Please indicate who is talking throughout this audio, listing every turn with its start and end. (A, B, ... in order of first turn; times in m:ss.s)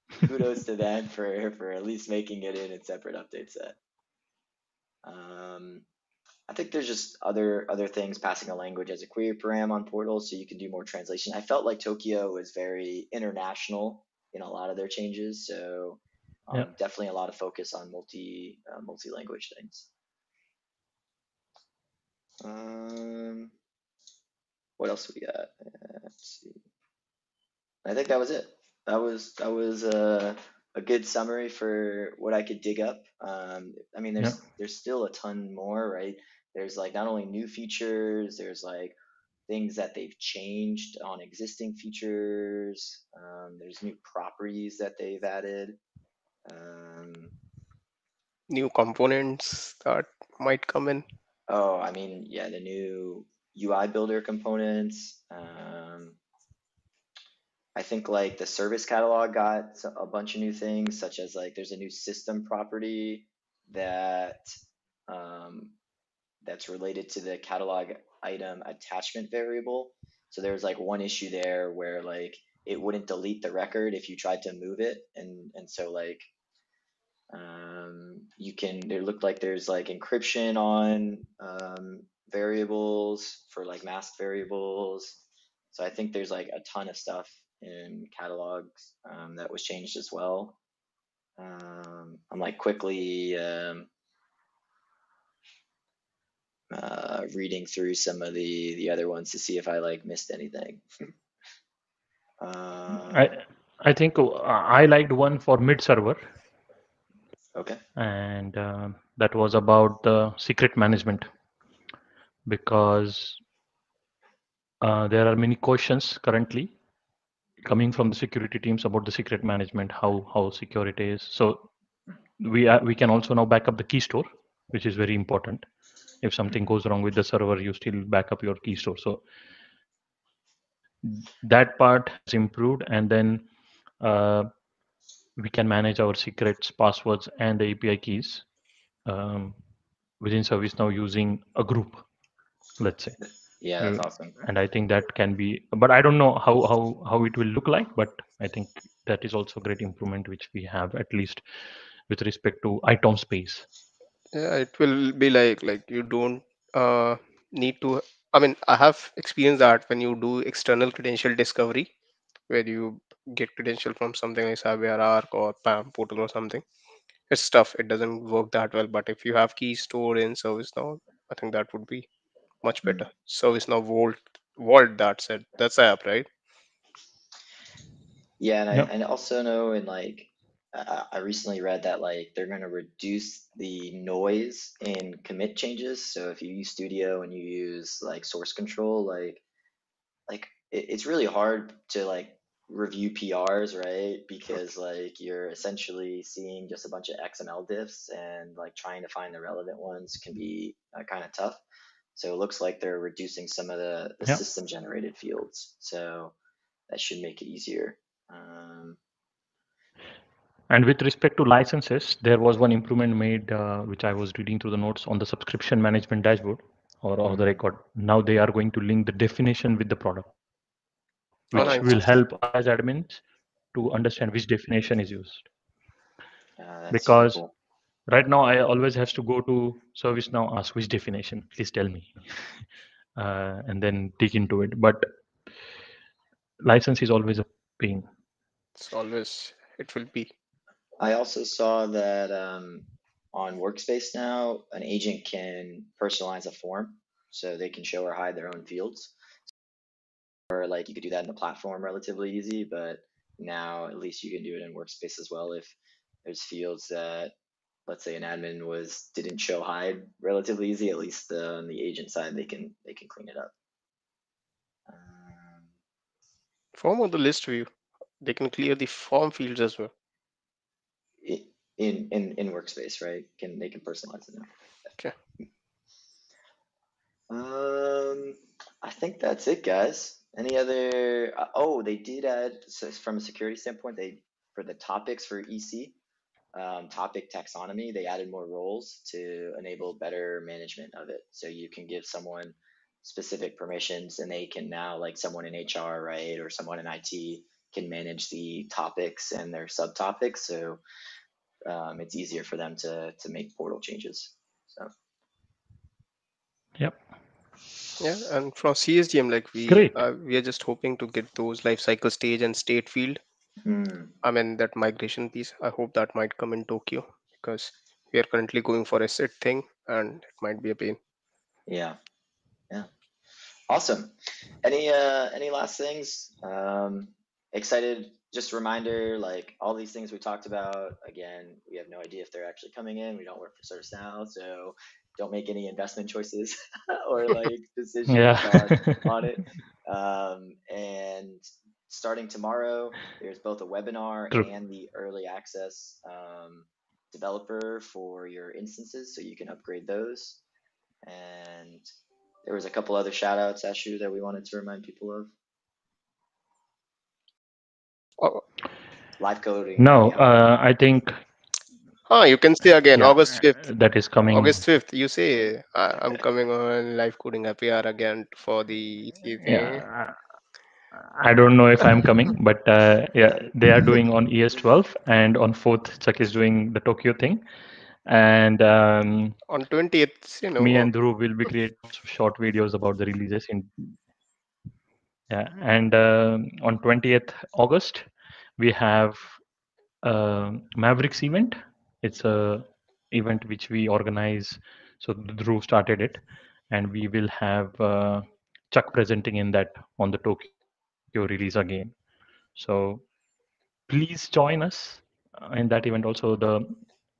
0:00.2-0:03.8 A
0:05.0-0:05.8 A
0:06.5-0:19.9 A
0:22.4-0:23.5 A
0:24.8-0:26.6 A
0:27.8-0:39.0 A
0:39.5-0:45.8 A
0:46.4-0:47.3 A
0:48.5-0:51.0 B
0:51.5-0:56.2 A
0:57.8-1:04.6 A
1:05.1-1:05.7 A
1:06.4-1:16.3 A
1:17.3-1:25.2 A
1:25.7-1:30.6 A
1:31.4-1:33.9 A
1:36.7-1:41.1 A
1:42.4-1:43.4 A
1:42.9-1:46.2 C
1:47.5-1:47.8 A
1:48.0-1:51.3 C
1:52.5-1:53.4 C
1:54.8-1:56.7 C
1:57.6-2:01.7 C
2:02.4-2:05.6 C
2:06.2-2:09.2 C
2:11.0-2:13.5 C
2:14.0-2:14.5 C
2:15.4-2:18.4 C
2:19.0-2:19.6 C
2:20.2-2:22.0 C
2:22.8-2:23.2 C
2:23.2-2:24.4 A
2:23.8-2:31.4 C
2:32.1-2:33.6 C
2:34.3-2:41.9 B
2:42.5-2:46.6 B
2:47.3-2:52.1 B
2:52.6-2:56.3 B
2:58.4-3:09.4 A
3:10.3-3:21.6 A
3:22.1-3:26.3 A
3:26.9-3:29.0 A
3:30.7-3:40.3 C
3:37.2-3:37.6 A
3:41.5-3:43.2 C
3:41.5-3:42.0 B
3:41.5-3:42.0 A
3:43.7-3:45.4 C
3:46.6-3:47.5 A
3:46.9-3:47.4 C
3:48.1-3:52.5 C
3:53.2-3:55.1 C
3:56.6-3:58.1 C
3:58.8-4:00.3 B
4:01.0-4:09.1 A
4:10.5-4:17.3 A
4:17.9-4:23.5 A
4:24.9-4:25.7 A
4:26.7-4:27.7 B
4:28.2-4:29.9 B
4:31.2-4:34.5 A
4:37.3-4:46.0 A
4:46.5-5:00.8 A
5:01.7-5:04.9 A
5:08.0-5:13.2 B
5:09.7-5:10.0 C
5:13.6-5:14.1 A
5:14.2-5:21.0 B
5:21.7-5:22.0 A
5:23.7-5:50.4 A
5:38.1-5:39.0 C
5:51.0-5:51.8 A
5:52.4-5:55.3 A
5:59.2-6:00.2 A
5:59.8-6:01.2 C
6:02.1-6:03.7 B
6:02.9-6:04.6 C
6:04.3-6:09.8 B
6:09.4-6:10.2 C
6:10.9-6:17.4 C
6:18.1-6:19.4 C
6:19.5-6:20.9 B
6:20.6-6:24.0 C
6:25.3-6:29.4 C
6:30.0-6:40.5 C
6:41.1-6:41.9 C
6:42.5-6:43.0 C
6:43.9-6:46.8 C